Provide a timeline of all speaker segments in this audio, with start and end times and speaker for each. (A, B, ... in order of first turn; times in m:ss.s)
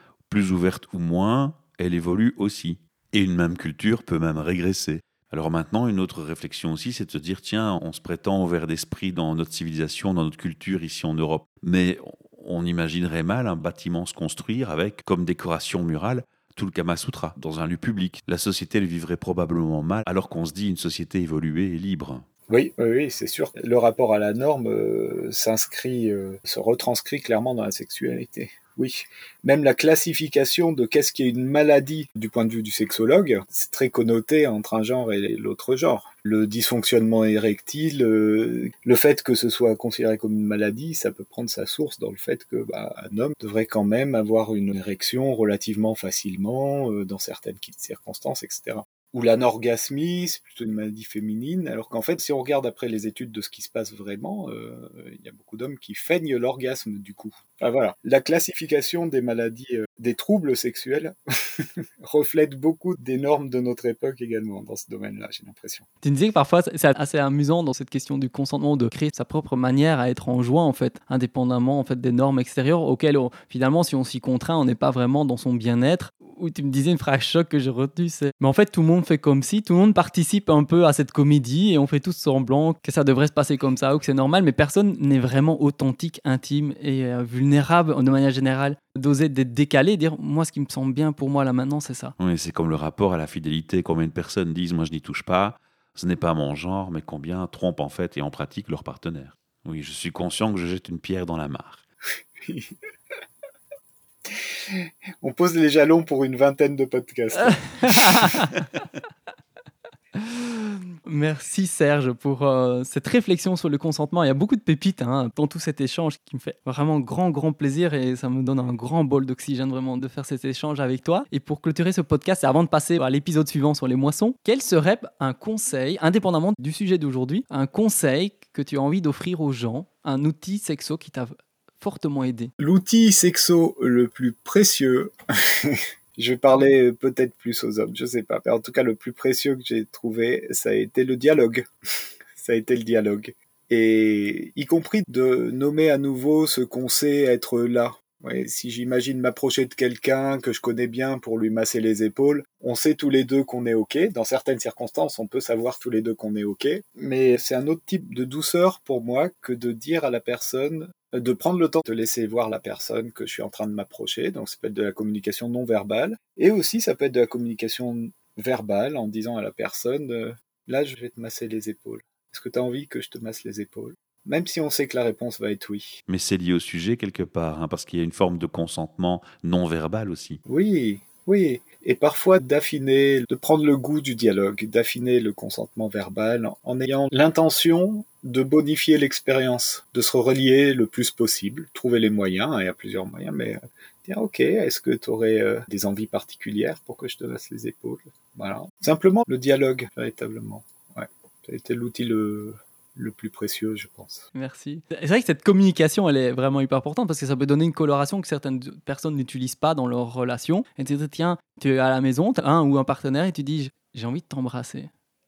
0:00.3-0:22.2 A
0:22.5-1:05.9 B
1:06.0-1:32.2 C
1:32.2-1:41.8 A
1:42.4-1:42.7 B
1:44.3-1:48.4 B
1:47.5-1:48.5 C
1:50.2-2:12.5 C
2:12.6-2:21.7 B
2:22.4-2:56.0 B
2:56.1-3:00.4 A
3:00.5-3:24.3 B
3:24.3-3:34.9 C